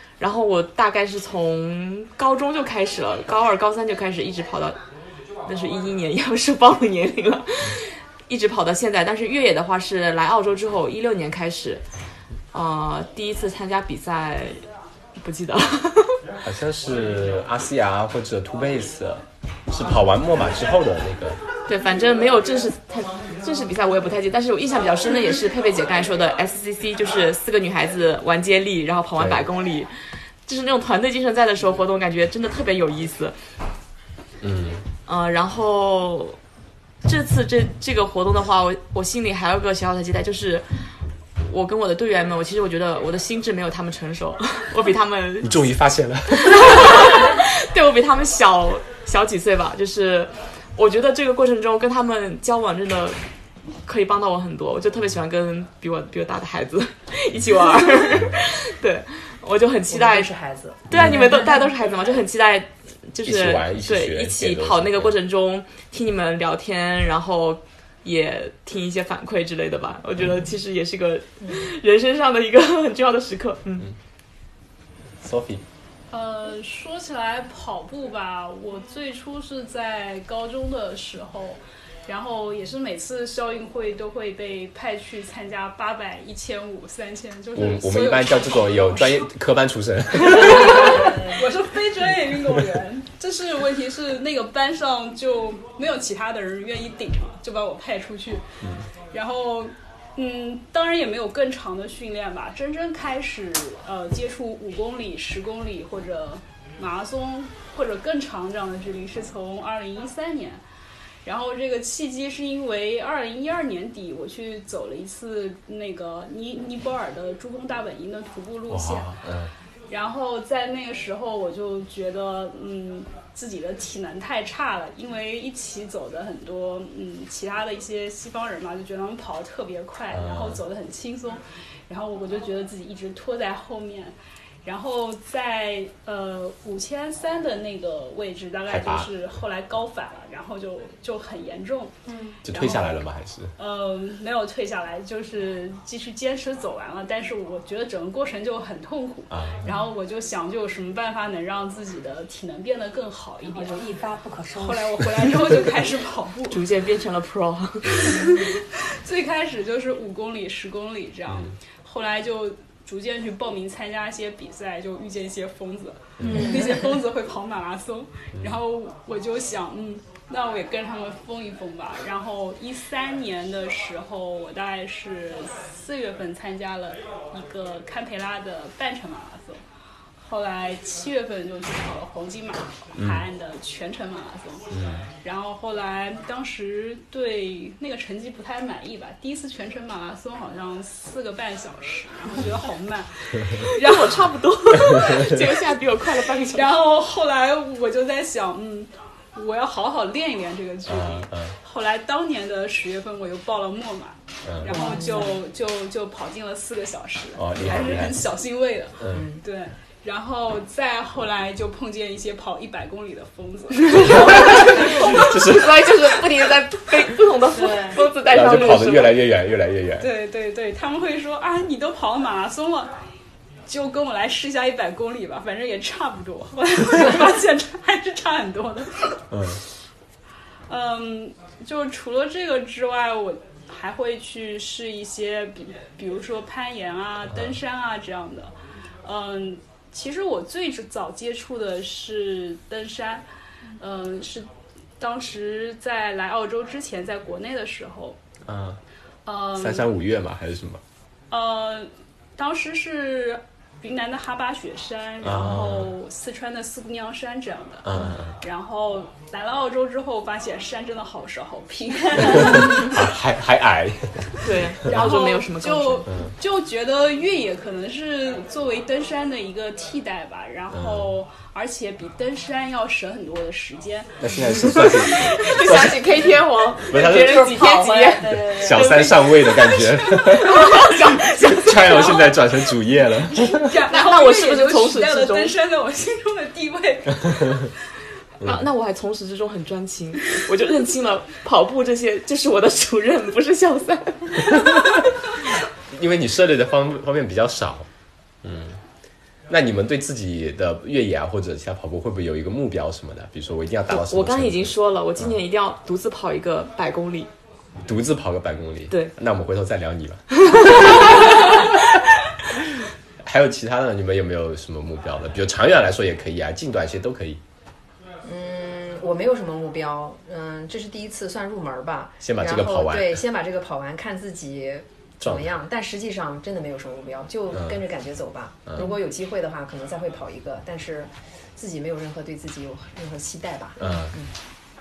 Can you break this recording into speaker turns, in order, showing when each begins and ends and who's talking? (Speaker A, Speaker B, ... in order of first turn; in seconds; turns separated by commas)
Speaker A: 0.2-4.8, Speaker A: 5.5-11.8, Speaker A: 12.5-14.6, Speaker A: 15.2-16.2, Speaker B: 16.4-21.4, Speaker A: 21.7-29.9, Speaker B: 29.2-29.5, Speaker A: 30.5-33.4, Speaker B: 34.4-34.8, Speaker A: 35.1-36.4, Speaker A: 37.0-40.7, Speaker A: 41.4-45.7, Speaker B: 45.4-47.4, Speaker A: 46.3-53.2, Speaker A: 53.9-60.3, Speaker C: 59.9-61.0, Speaker A: 60.9-73.9, Speaker B: 60.9-61.3, Speaker B: 63.2-65.2, Speaker B: 75.2-75.6, Speaker D: 76.1-89.3, Speaker B: 87.6-91.2, Speaker D: 90.2-98.5, Speaker E: 90.9-91.4, Speaker D: 99.1-110.6, Speaker D: 111.2-119.2, Speaker B: 118.7-119.5, Speaker D: 119.9-142.0, Speaker B: 130.1-130.6, Speaker B: 138.7-139.1, Speaker E: 142.1-142.4, Speaker B: 142.4-143.5, Speaker D: 142.5-143.1, Speaker D: 143.6-153.8, Speaker B: 149.3-149.8, Speaker E: 153.5-155.1, Speaker D: 154.6-156.7, Speaker A: 156.5-158.4, Speaker D: 158.0-179.6, Speaker B: 166.2-166.6, Speaker B: 168.4-168.6, Speaker D: 180.2-194.9, Speaker B: 183.0-183.3, Speaker B: 184.7-185.1, Speaker A: 193.7-196.8, Speaker B: 194.9-195.4, Speaker D: 196.5-215.4, Speaker B: 200.9-201.6, Speaker B: 204.5-204.9, Speaker E: 204.7-205.3, Speaker B: 207.4-208.3, Speaker B: 209.0-209.3, Speaker C: 209.1-209.4, Speaker A: 213.9-219.3, Speaker B: 213.9-215.9, Speaker E: 217.5-218.0, Speaker B: 218.3-220.1, Speaker D: 220.0-222.9, Speaker D: 223.7-229.2, Speaker B: 229.3-229.6, Speaker D: 230.7-243.3, Speaker D: 243.8-244.5, Speaker D: 245.0-248.2, Speaker B: 248.4-248.8, Speaker D: 249.3-249.9, Speaker B: 249.6-250.8, Speaker D: 251.3-263.1, Speaker B: 255.2-255.9, Speaker B: 257.8-258.4, Speaker B: 262.2-265.0, Speaker A: 264.4-266.1, Speaker D: 264.9-275.4, Speaker B: 270.7-271.2, Speaker B: 274.2-276.2, Speaker A: 274.4-282.4, Speaker B: 276.8-283.8, Speaker E: 276.9-279.1, Speaker D: 281.9-282.4, Speaker D: 283.1-287.7, Speaker A: 283.9-285.6, Speaker B: 287.2-287.7, Speaker B: 288.4-288.7, Speaker A: 288.4-295.0, Speaker B: 294.4-295.1, Speaker B: 295.9-297.9, Speaker B: 298.4-298.8, Speaker B: 299.5-305.4, Speaker A: 303.9-307.3, Speaker B: 307.9-311.8, Speaker A: 310.4-311.7, Speaker B: 313.2-317.4, Speaker C: 318.2-334.3, Speaker B: 322.2-323.2, Speaker B: 325.2-325.5, Speaker B: 333.8-334.2